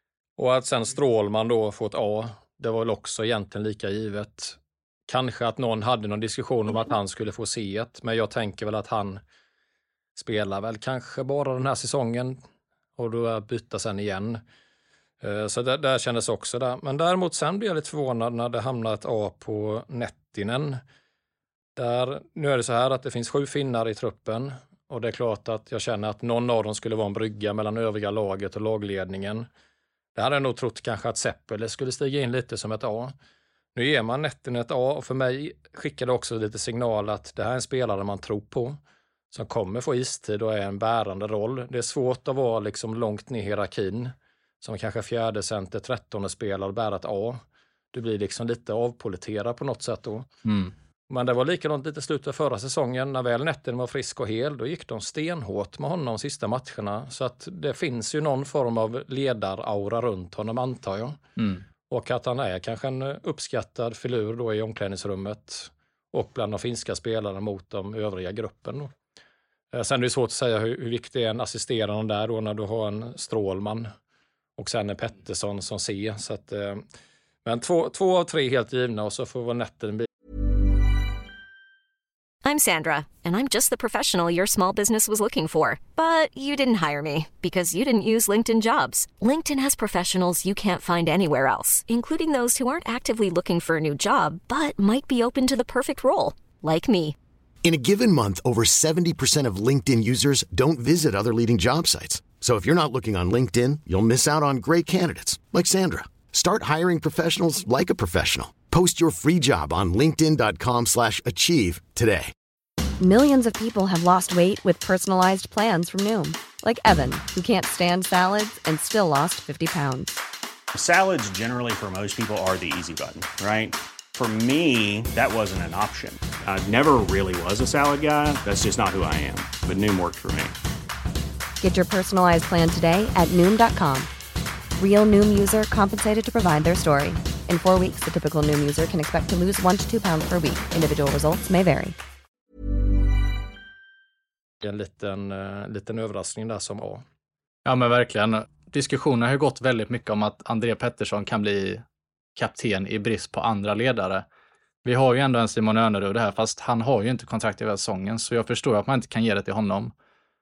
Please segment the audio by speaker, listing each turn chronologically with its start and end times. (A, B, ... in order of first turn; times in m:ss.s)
0:00.4-0:09.2 A
0:10.2-0:12.4 A
0:13.0-0:14.4 A
0:15.2-0:20.8 A
0:21.8-0:29.5 A
0:30.2-0:33.1 A
0:33.8-0:38.8 A
0:39.3-0:47.4 A
0:47.9-0:50.3 A
0:50.4-0:50.7 B
0:51.1-1:01.2 A
1:01.4-1:01.6 B
1:01.9-1:08.9 A
1:09.7-1:13.9 A
1:14.6-1:16.8 A
1:17.4-1:20.1 A
1:22.4-1:37.2 C
1:37.6-1:52.3 D
1:53.0-2:00.2 E
2:00.7-2:10.6 F
2:11.6-2:14.1 E
2:14.8-2:22.0 E
2:24.6-2:27.0 A
2:27.6-2:31.8 B
2:32.4-2:34.3 B
2:34.8-2:39.9 B